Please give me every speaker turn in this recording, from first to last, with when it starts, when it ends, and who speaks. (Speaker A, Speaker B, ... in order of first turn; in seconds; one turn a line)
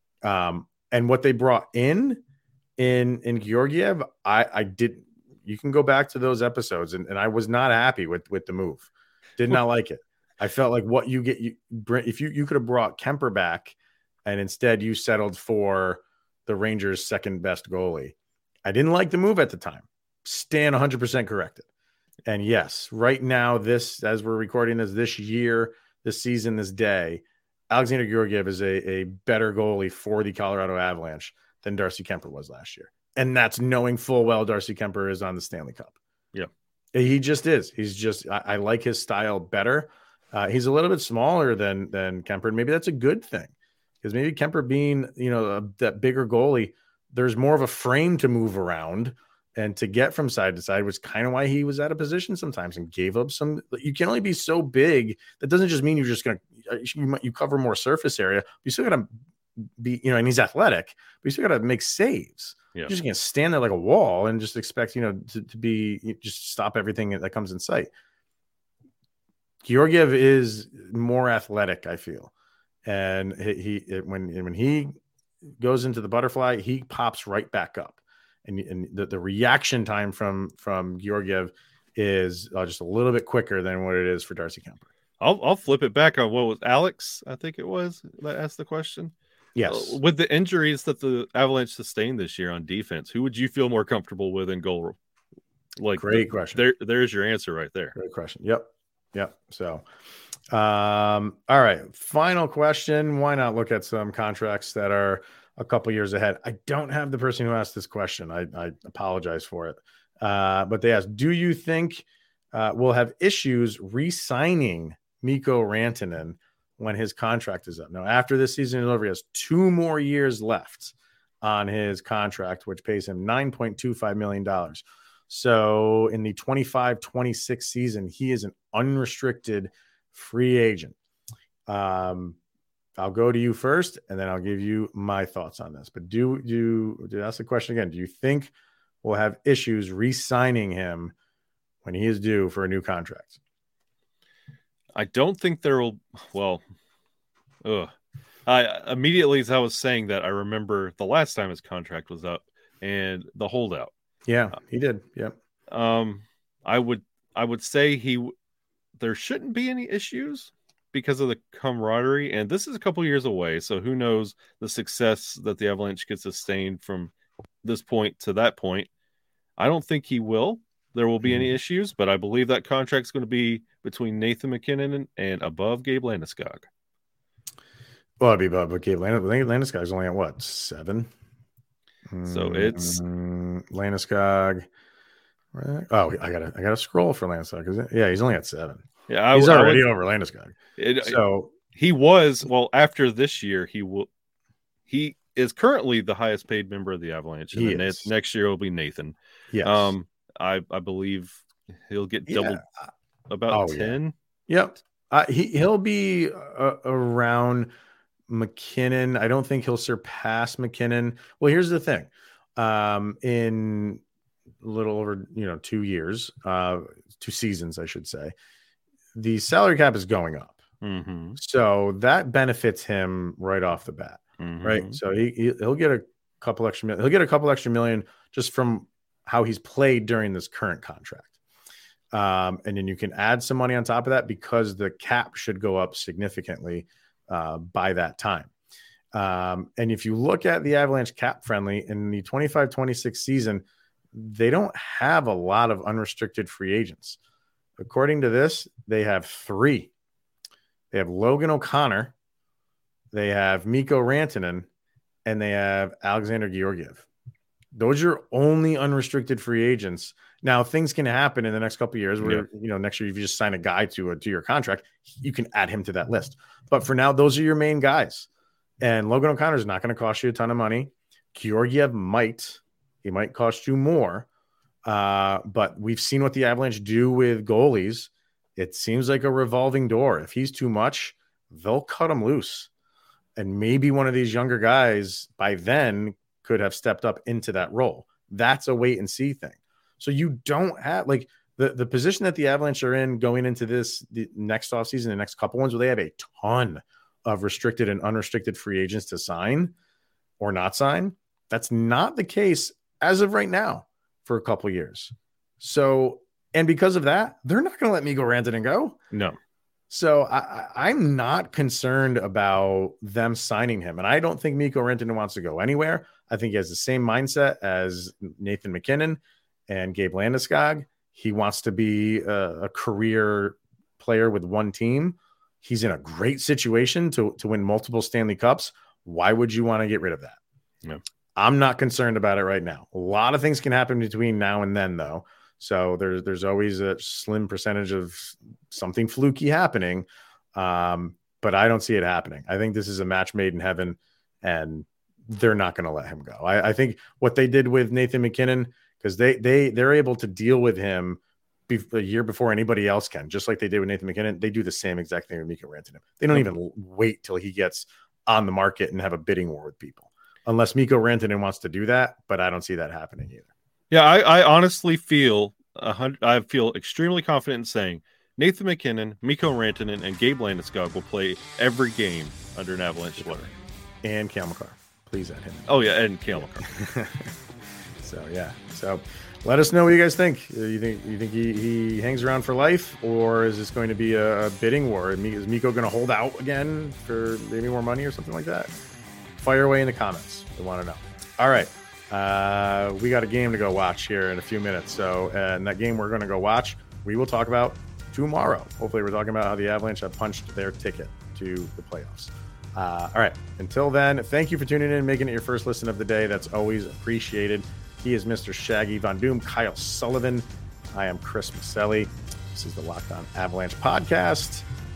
Speaker A: 0.2-2.2
Speaker A: 2.8-21.7
Speaker A: 22.2-36.0
Speaker A: 36.9-67.9
Speaker A: 69.6-72.3
Speaker A: 72.8-75.0
Speaker A: 75.6-84.9
Speaker B: 85.2-89.1
Speaker A: 89.5-90.0
Speaker B: 89.7-95.0
Speaker B: 95.8-97.9
Speaker A: 96.0-96.6
Speaker A: 97.9-99.8
Speaker A: 100.5-130.9
Speaker A: 131.7-132.4
Speaker A: 133.0-138.5
Speaker A: 139.0-141.1
Speaker A: 141.8-143.4
Speaker B: 144.9-146.6
Speaker B: 147.6-147.9
Speaker B: 148.4-153.9
Speaker A: 154.3-155.3
Speaker B: 155.7-158.3
Speaker B: 159.0-168.9
Speaker B: 169.6-176.7
Speaker A: 178.2-181.1
Speaker A: 182.1-184.7
Speaker B: 182.2-183.0
Speaker A: 185.5-191.5
Speaker B: 189.1-189.8
Speaker B: 190.8-191.2
Speaker B: 191.7-194.1
Speaker B: 194.9-202.6
Speaker A: 197.5-198.1
Speaker A: 199.5-199.9
Speaker A: 202.3-202.9
Speaker B: 203.3-204.1
Speaker A: 203.5-207.7
Speaker A: 208.3-214.0
Speaker A: 214.6-218.3
Speaker A: 219.1-220.6
Speaker B: 220.8-221.4
Speaker A: 221.3-231.3
Speaker B: 224.4-225.0
Speaker A: 232.1-238.5
Speaker A: 239.1-247.2
Speaker A: 247.8-249.9
Speaker A: 250.9-252.1
Speaker A: 253.1-254.7
Speaker A: 255.2-257.1
Speaker A: 257.7-268.3
Speaker B: 262.2-262.4
Speaker A: 268.8-274.3
Speaker A: 274.9-282.7
Speaker A: 283.4-299.7
Speaker A: 300.4-309.0
Speaker B: 309.1-309.4
Speaker A: 309.9-330.4
Speaker A: 331.4-363.5
Speaker B: 363.9-373.5
Speaker A: 374.0-375.8
Speaker B: 375.7-376.7
Speaker A: 376.4-377.3
Speaker A: 378.0-388.7
Speaker A: 389.4-414.6